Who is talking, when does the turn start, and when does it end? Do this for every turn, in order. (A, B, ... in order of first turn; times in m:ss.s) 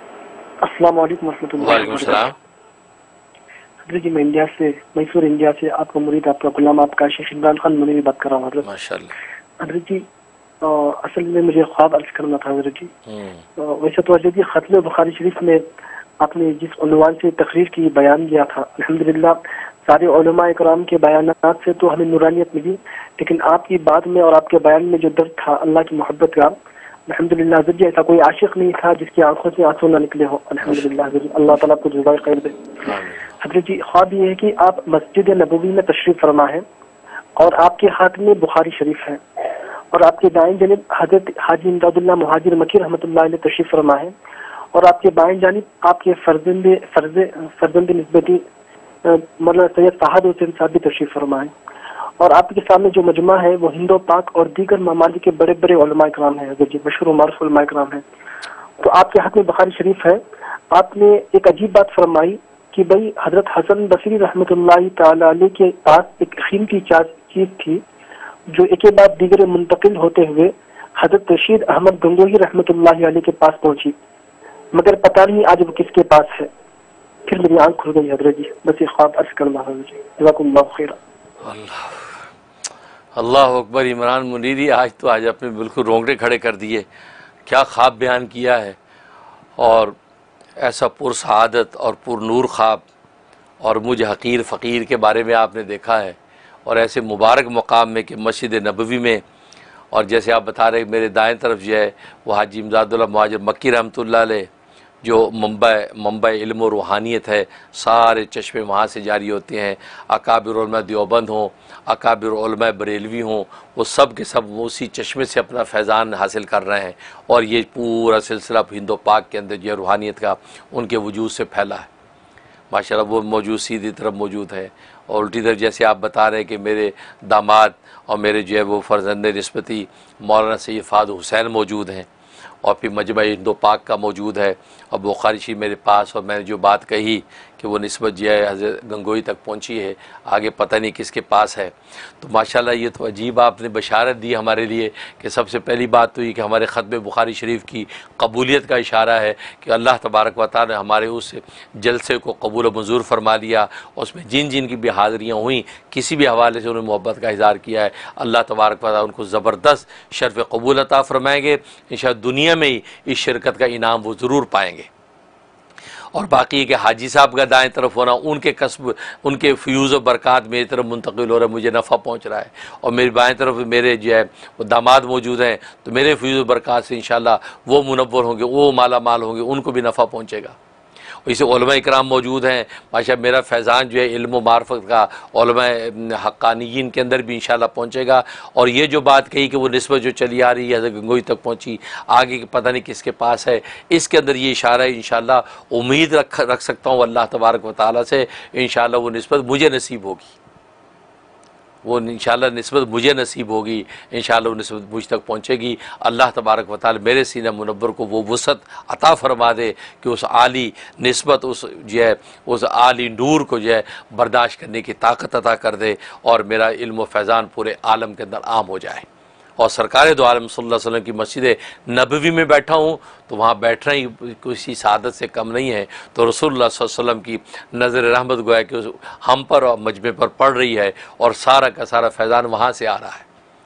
0:00.6-0:02.3 A
0:01.6-0:02.4 B
0:03.8-0:08.7 A
0:08.6-0:09.1 B
0:09.6-0:10.0 A
0:10.6-0:12.9 A
0:13.1-0:13.4 B
0:13.6-0:15.6 A
0:16.2-0:26.5 A
0:27.1-0:32.6 A
0:32.8-0:33.3 B
0:33.4-0:36.6 A
0:37.4-0:39.2 A
0:39.9-0:44.1 A
0:44.7-0:48.4 A
0:49.0-0:51.5 A
0:52.2-0:58.0 A
0:58.8-1:00.2 A
1:00.7-1:07.8 A
1:08.5-1:14.0 A
1:14.7-1:16.5 A
1:17.3-1:21.0 A
1:21.4-1:22.0 B
1:23.2-1:26.9 B
1:27.5-1:28.8 B
1:29.6-1:30.0 B
1:30.6-1:32.8 B
1:33.6-1:39.2 B
1:39.9-1:44.5 B
1:45.0-2:01.9 B
2:02.7-2:12.1 B
2:12.6-2:44.9 B
2:46.1-3:00.6 B
3:01.3-3:20.4 B
3:21.8-3:39.1 B
3:39.6-3:53.3 B